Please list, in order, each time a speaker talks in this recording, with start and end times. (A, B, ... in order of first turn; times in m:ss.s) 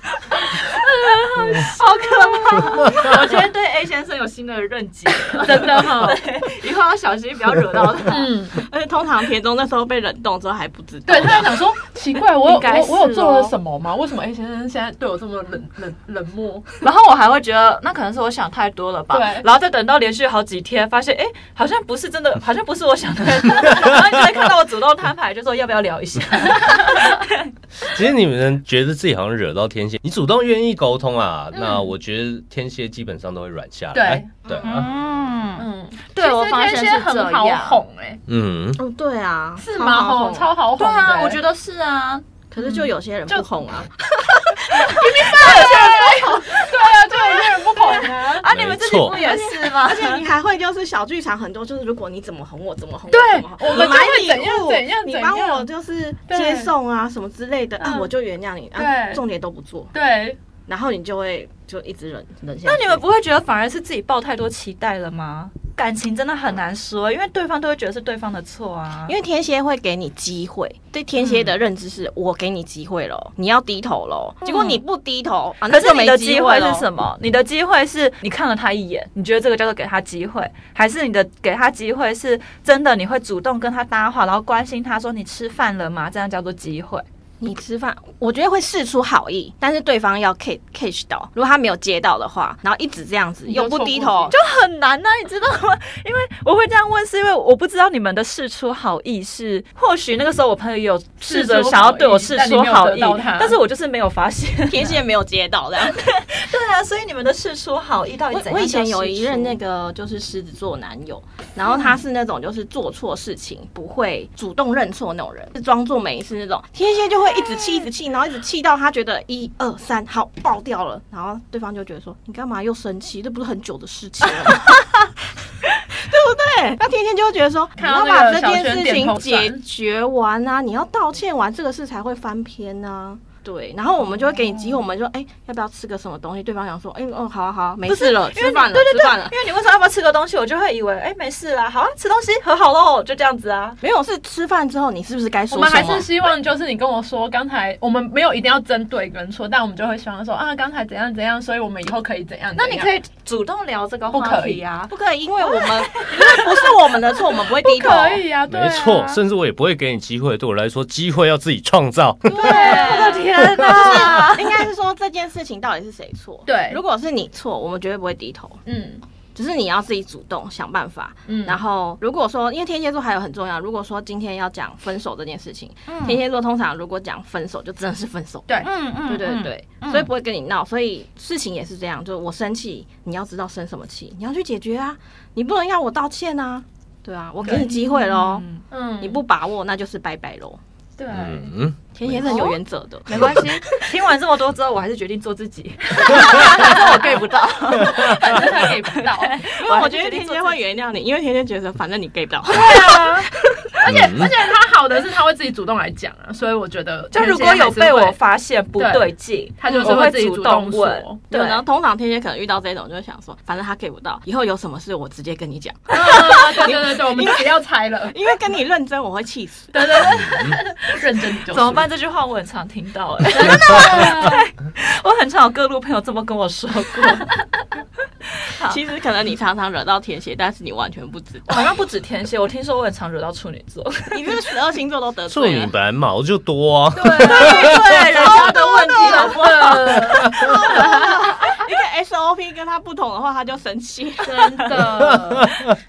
0:00.8-0:01.8 A
0:01.0-0:08.3 B
0:02.3-0:02.9 A
0:05.4-0:06.2 A
0:08.1-0:08.6 A
0:08.5-0:11.6 C
0:11.1-0:16.6 A
0:12.4-0:13.6 B
0:16.8-0:27.5 B
0:19.1-0:19.4 A
0:26.6-0:27.1 A
0:27.8-0:34.9 D
0:31.5-0:31.8 B
0:33.9-0:34.3 A
0:34.4-0:34.9 C
0:34.6-0:37.8 B
0:35.6-0:38.2 A
0:38.3-0:38.8 D
0:38.8-0:40.5 C
0:39.6-0:41.4 A
0:40.8-0:42.3 B
0:42.5-0:46.1 C
0:42.6-0:43.4 A
0:44.7-0:48.5 A
0:45.0-0:50.2 B
0:48.5-0:49.2 D
0:49.1-0:59.9 C
0:53.1-0:55.7 A
0:56.3-0:56.7 A
0:57.8-0:58.1 A
0:58.7-0:59.2 A
0:59.9-1:00.4 A
1:00.6-1:03.0 C
1:02.6-1:09.1 B
1:09.1-1:16.9 C
1:11.2-1:11.6 B
1:14.4-1:14.8 B
1:15.6-1:27.0 B
1:27.4-1:34.3 C
1:33.4-1:34.4 A
1:34.3-1:45.0 B
1:41.2-1:43.6 A
1:44.7-1:46.0 C
1:45.8-1:49.6 B
1:48.3-2:05.1 C
1:51.7-1:52.0 B
2:05.9-2:19.4 C
2:07.8-2:09.6 A
2:17.9-2:23.8 B
2:23.8-2:26.1 C
2:25.5-2:32.9 A
2:32.6-2:36.7 B
2:34.1-2:34.6 A
2:34.9-2:38.2 C
2:37.6-2:39.2 A
2:38.5-2:42.6 D
2:42.2-2:48.6 C
2:42.4-2:43.2 A
2:42.4-2:44.7 B
2:43.4-2:43.7 D
2:46.4-2:46.8 A
2:48.6-2:49.0 A
2:49.4-3:08.4 C
2:51.2-2:51.6 A
2:55.9-2:56.2 B
2:58.6-3:00.1 B
3:07.4-3:07.7 A
3:07.4-3:08.6 B
3:08.7-3:09.2 A
3:09.0-3:10.6 C
3:11.0-3:11.5 A
3:11.1-3:12.4 D
3:11.9-3:14.0 C
3:12.2-3:20.6 B
3:13.1-3:13.4 D
3:16.0-3:16.9 A
3:16.6-3:16.8 C
3:17.7-3:19.4 A
3:19.5-3:23.7 C
3:22.5-3:28.2 A
3:23.9-3:24.3 D
3:27.1-3:31.6 B
3:28.8-3:31.2 A
3:31.3-3:37.6 C
3:35.9-3:38.2 A
3:38.1-3:40.2 C
3:39.7-3:41.9 A
3:40.1-3:40.6 D
3:41.5-3:47.3 B
3:43.3-3:44.4 A
3:48.4-3:48.8 B
3:48.6-3:51.6 C
3:51.5-3:54.3 B
3:54.1-3:55.7 C
3:55.3-3:58.2 D
3:57.0-3:57.7 A
3:57.1-4:01.0 B
3:57.3-4:04.8 C
3:58.4-4:01.3 A
4:04.2-4:05.5 A
4:05.1-4:05.7 D